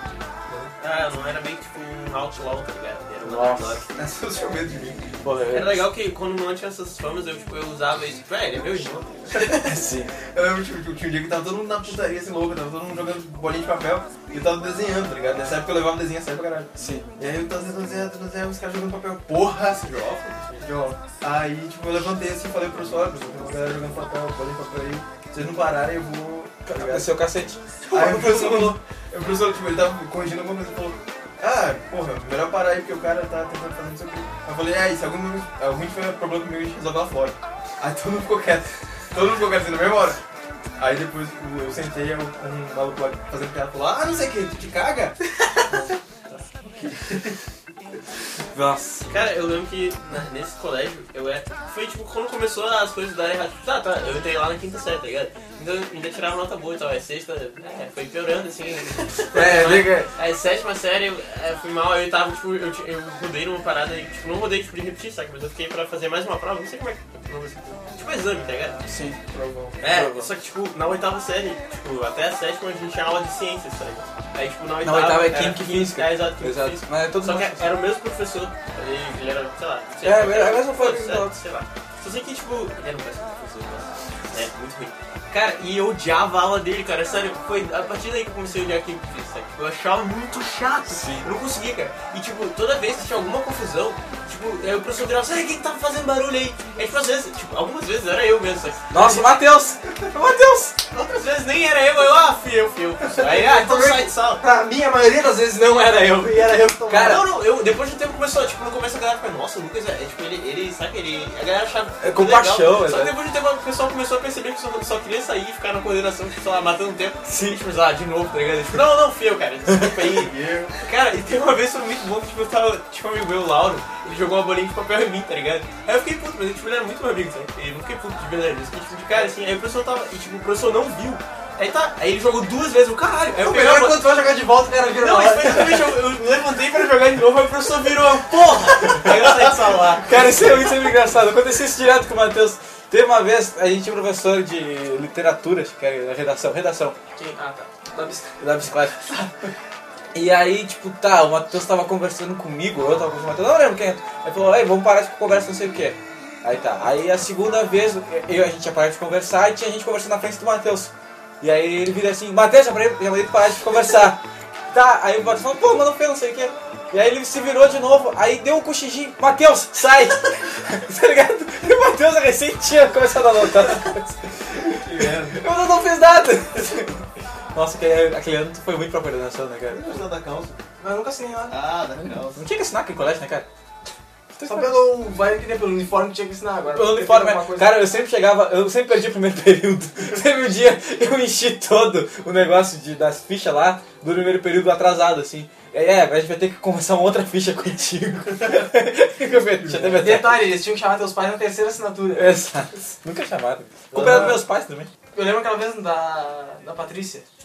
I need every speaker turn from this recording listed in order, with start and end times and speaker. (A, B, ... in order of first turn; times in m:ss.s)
0:00.8-0:03.9 A
0:03.2-0:03.8 B
0:04.0-0:05.0 C
0:05.2-0:05.9 B
0:05.5-0:09.3 A
0:09.5-0:10.1 B
0:10.3-0:27.1 C
0:16.8-0:17.1 B
0:26.7-0:27.6 B
0:27.9-0:40.2 C
0:27.9-0:28.7 A
0:40.8-0:47.4 C
0:48.5-0:49.1 B
0:49.1-1:08.8 A
0:59.3-1:00.1 B
1:08.9-1:09.2 B
1:09.3-1:09.8 C
1:09.8-1:38.9 A
1:09.8-1:10.3 B
1:14.8-1:17.7 B
1:20.0-1:21.4 B
1:31.0-1:31.3 B
1:38.9-1:40.8 B
1:40.9-1:44.4 A
1:43.2-1:47.2 D
1:46.9-1:47.2 B
1:46.9-2:14.2 A
1:52.0-1:53.2 B
1:57.2-1:57.6 B
2:00.1-2:00.8 C
2:13.4-2:15.9 D
2:15.0-2:20.2 A
2:20.0-2:27.0 B
2:27.2-2:28.5 D
2:28.4-2:29.1 B
2:29.0-2:29.4 D
2:30.1-2:59.8 B
2:54.6-2:55.4 C
2:59.7-3:00.6 C
3:00.8-3:01.6 D
3:01.5-3:02.4 C
3:02.4-3:03.5 B
3:04.3-3:04.8 B
3:04.4-3:07.8 D
3:06.7-3:20.5 B
3:19.6-3:20.1 C
3:20.0-3:22.4 D
3:22.1-3:24.9 B
3:23.9-3:24.4 C
3:25.1-3:27.2 D